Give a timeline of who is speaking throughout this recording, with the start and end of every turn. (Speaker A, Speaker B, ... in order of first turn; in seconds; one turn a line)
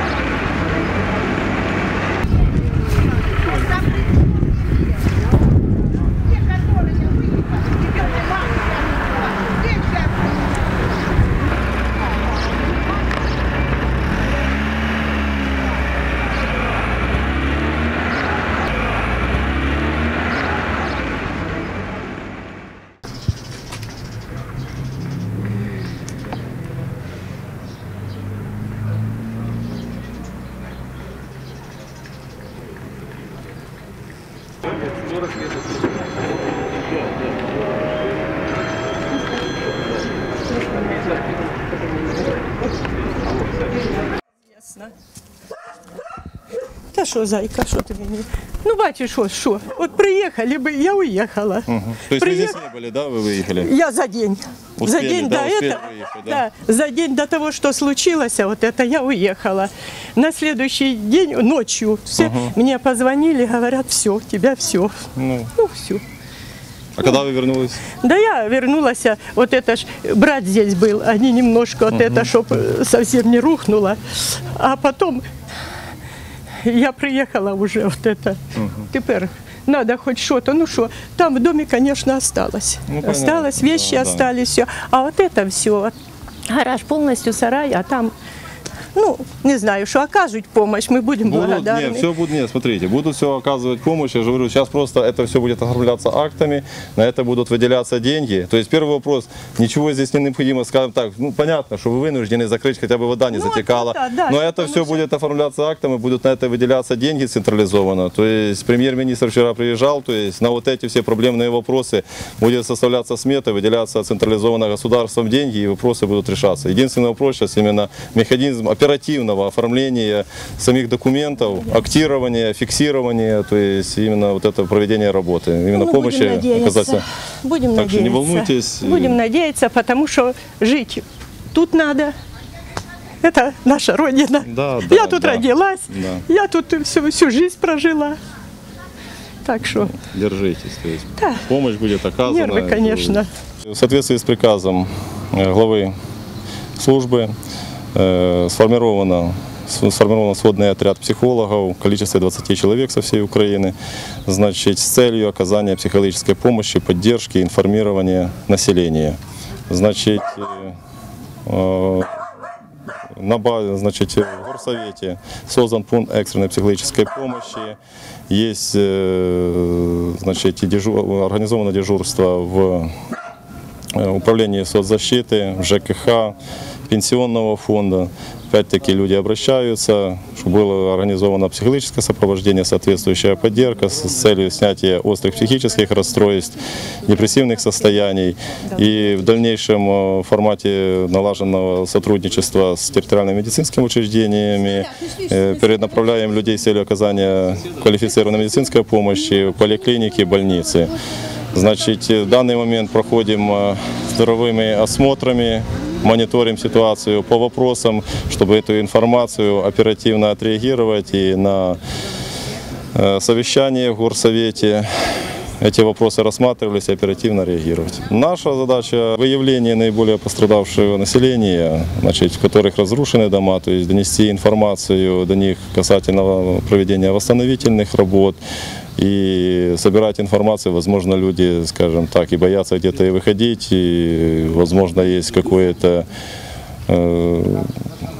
Speaker A: 44.5-44.9
Speaker A: 46.9-52.6
Speaker B: 51.7-53.7
Speaker A: 53.5-65.0
Speaker B: 54.8-56.4
Speaker B: 62.2-62.5
Speaker B: 65.2-65.5
Speaker A: 65.5-66.0
Speaker B: 67.0-67.9
Speaker A: 67.9-75.2
Speaker B: 71.9-72.3
Speaker A: 76.6-85.9
Speaker B: 78.5-78.9
Speaker B: 82.9-84.3
Speaker A: 86.5-88.1
Speaker A: 88.9-92.1
Speaker B: 91.2-127.0
Speaker A: 103.3-105.0
Speaker A: 125.7-132.1
Speaker B: 127.8-129.2
Speaker A: 133.2-138.2
Speaker B: 134.4-136.2
Speaker A: 139.4-139.9
Speaker B: 139.9-145.9
Speaker A: 141.2-141.4
Speaker A: 142.2-143.3
Speaker B: 146.8-147.3
Speaker B: 147.9-153.7
Speaker B: 154.2-159.2
Speaker B: 159.7-160.8
Speaker B: 161.4-162.2
Speaker B: 163.1-167.8
Speaker B: 168.3-172.9
Speaker B: 173.9-176.4
Speaker B: 176.9-200.9
Speaker B: 201.5-211.8
Speaker B: 212.9-214.9
Speaker B: 215.6-228.4
Speaker B: 229.0-236.1
Speaker B: 236.9-237.8